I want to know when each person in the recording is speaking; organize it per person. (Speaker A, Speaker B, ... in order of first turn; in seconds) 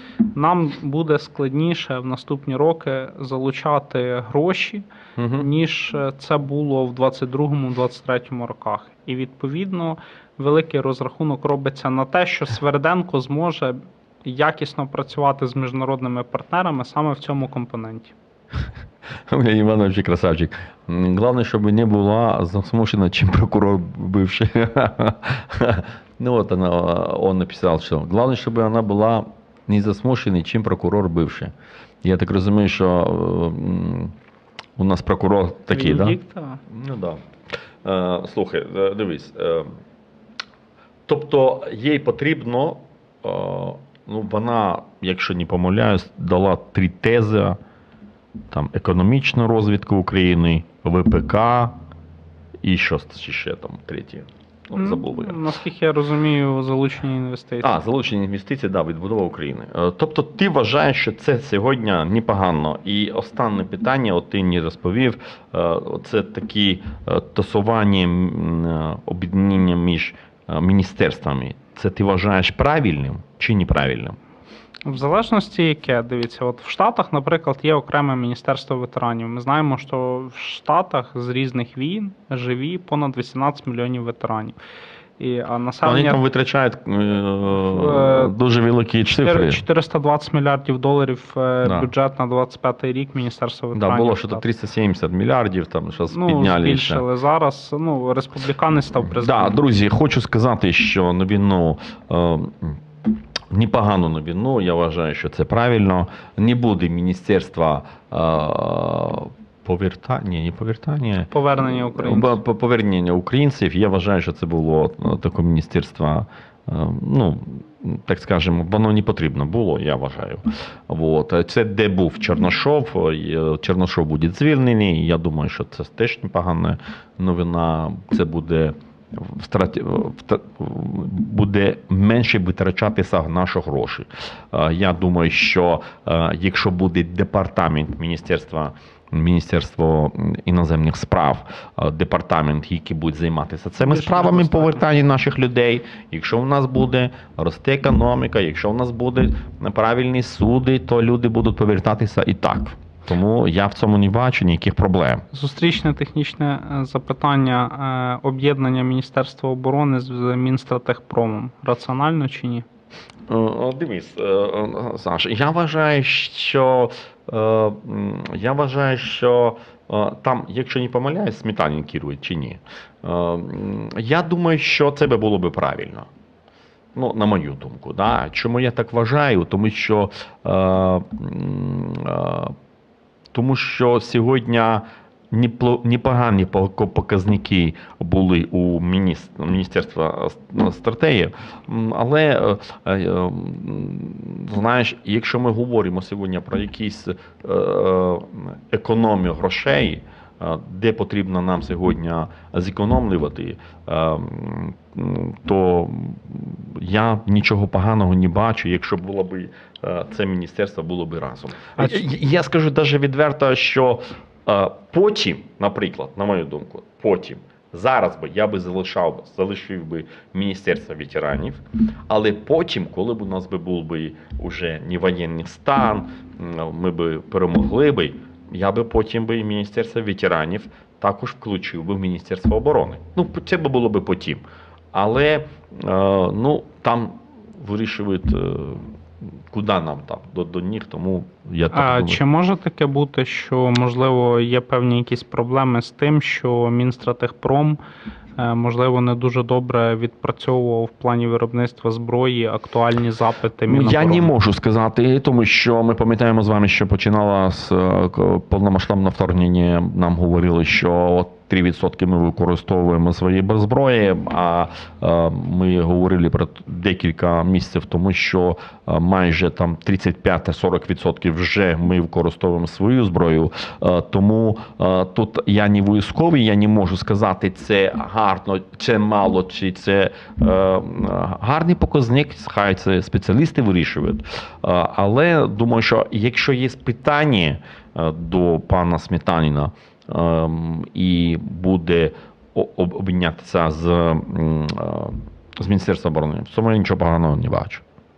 Speaker A: 0.3-18.1, 35.7-36.6, 54.7-57.8, 74.8-84.6, 85.2-86.2, 87.5-88.3, 89.1-94.4, 96.1-99.6, 111.3-112.4, 143.8-144.8, 155.3-162.6, 211.8-212.0, 241.7-247.8, 248.4-254.3
Speaker B: 5.2-5.5, 19.3-34.1, 34.8-36.2, 36.7-37.2, 37.8-39.7, 41.1-47.6, 48.5-51.7, 52.6-55.4, 57.6-74.2, 85.8-89.6, 91.6-91.9, 93.7-97.0, 99.0-102.8, 103.5-155.2, 163.3-176.1, 176.9-182.6, 183.3-238.9, 239.5-242.2, 253.7-297.8